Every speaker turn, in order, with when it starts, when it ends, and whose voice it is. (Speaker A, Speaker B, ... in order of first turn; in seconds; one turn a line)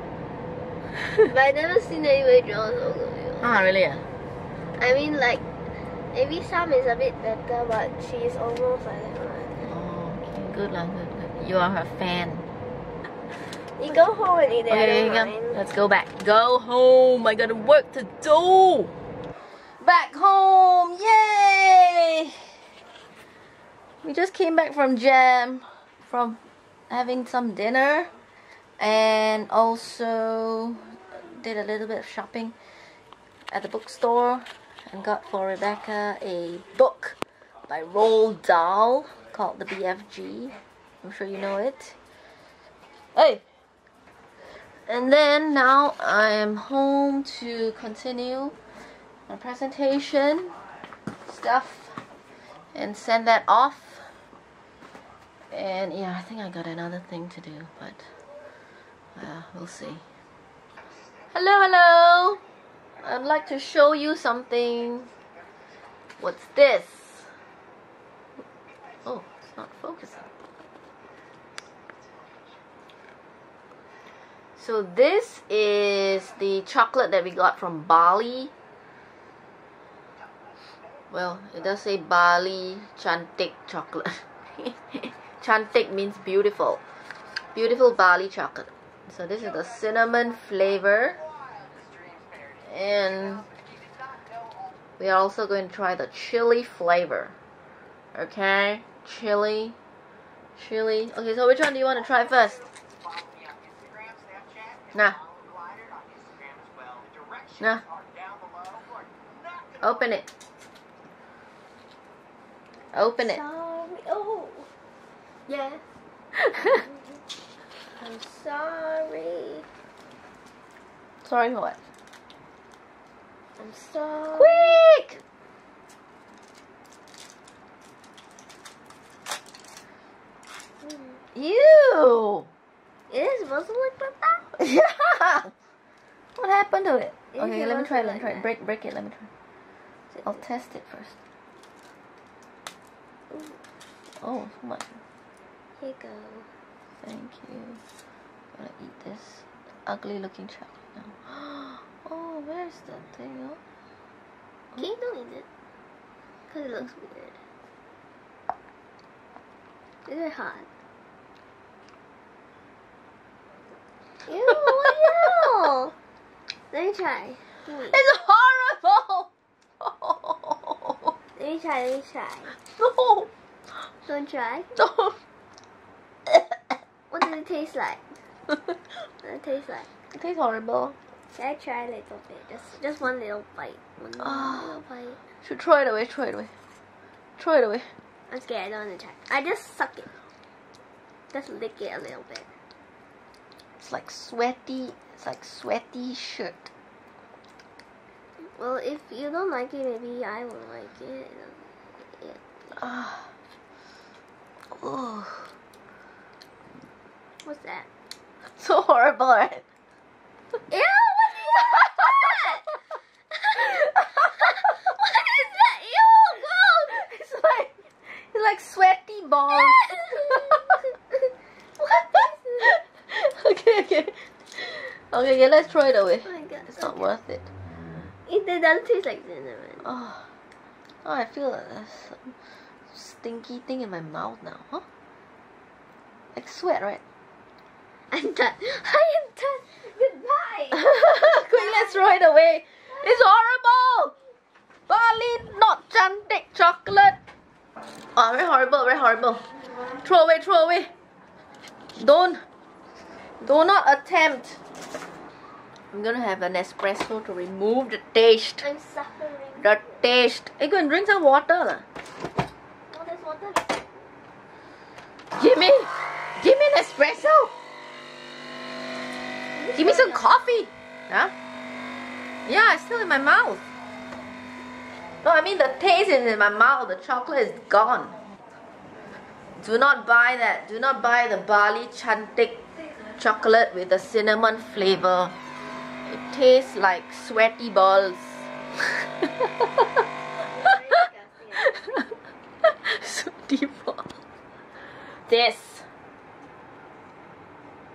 Speaker A: 1.2-3.6
Speaker B: 3.4-4.1
Speaker A: 4.7-5.4
Speaker A: 6.1-9.7
Speaker B: 9.6-12.5
Speaker A: 13.8-15.6
Speaker B: 14.7-18.9
Speaker B: 19.8-22.6
Speaker B: 24.0-28.1
Speaker B: 28.8-32.5
Speaker B: 33.5-37.2
Speaker B: 37.7-42.0
Speaker B: 43.1-43.4
Speaker B: 44.9-48.6
Speaker B: 49.3-50.5
Speaker B: 51.2-52.0
Speaker B: 52.7-54.2
Speaker B: 55.5-58.1
Speaker B: 59.1-60.0
Speaker B: 61.3-62.4
Speaker B: 63.0-65.1
Speaker B: 66.2-67.3
Speaker B: 69.0-70.3
Speaker B: 74.6-78.5
Speaker B: 81.1-86.8
Speaker B: 87.5-91.2
Speaker B: 92.6-93.5
Speaker B: 95.0-97.3
Speaker B: 98.1-99.8
Speaker B: 100.5-102.6
Speaker B: 104.9-105.2
Speaker B: 107.6-107.8
Speaker B: 109.8-110.3
Speaker B: 112.9-113.4
Speaker A: 113.2-114.7
Speaker A: 115.5-115.8
Speaker A: 116.6-116.9
Speaker A: 118.0-119.7
Speaker B: 121.2-121.8
Speaker A: 123.6-124.8
Speaker B: 124.3-125.2
Speaker A: 130.8-131.2
Speaker B: 131.3-132.5
Speaker A: 133.1-134.5
Speaker B: 134.6-135.5
Speaker B: 136.3-139.3
Speaker A: 137.3-138.5
Speaker B: 140.2-141.2
Speaker A: 143.3-143.6
Speaker B: 144.2-145.0
Speaker A: 145.8-146.5
Speaker B: 147.0-147.8
Speaker B: 148.5-153.6
Speaker A: 154.8-155.5
Speaker A: 156.5-157.4
Speaker A: 160.1-160.7
Speaker A: 164.2-165.9
Speaker A: 166.7-168.0
Speaker B: 167.9-169.3
Speaker B: 169.8-171.1
Speaker A: 171.3-172.5
Speaker B: 172.6-173.3
Speaker A: 174.0-174.8
Speaker B: 174.8-175.2
Speaker A: 177.1-178.2
Speaker A: 179.0-179.9
Speaker B: 180.1-180.9
Speaker A: 181.3-185.2
Speaker B: 184.2-184.8
Speaker B: 185.4-186.5
Speaker B: 187.4-187.9
Speaker A: 188.3-190.1
Speaker A: 191.3-192.5
Speaker B: 193.8-196.7
Speaker A: 198.4-202.8
Speaker B: 202.7-203.3
Speaker B: 204.7-205.5
Speaker A: 207.4-207.9
Speaker B: 208.4-209.6
Speaker A: 210.6-212.8
Speaker A: 213.3-217.0
Speaker B: 216.9-220.8
Speaker A: 219.8-222.8
Speaker B: 221.9-227.5
Speaker A: 226.2-227.1
Speaker A: 228.2-229.8
Speaker B: 229.8-230.3
Speaker B: 231.0-232.4
Speaker B: 232.9-234.8
Speaker B: 236.3-237.0
Speaker A: 238.1-242.0
Speaker B: 240.7-244.1
Speaker B: 244.9-247.2
Speaker B: 248.1-250.9
Speaker B: 251.9-252.4
Speaker B: 253.4-254.6
Speaker B: 255.9-258.6
Speaker A: 258.6-259.7
Speaker B: 259.6-261.8
Speaker A: 262.9-264.1
Speaker B: 265.3-267.5
Speaker A: 269.5-270.3
Speaker B: 269.7-271.3
Speaker B: 272.4-273.6
Speaker B: 275.2-278.2
Speaker B: 279.6-282.6
Speaker B: 283.1-285.4
Speaker B: 286.0-289.6
Speaker A: 290.4-292.0
Speaker B: 291.6-291.9
Speaker B: 292.6-294.2
Speaker B: 295.1-295.9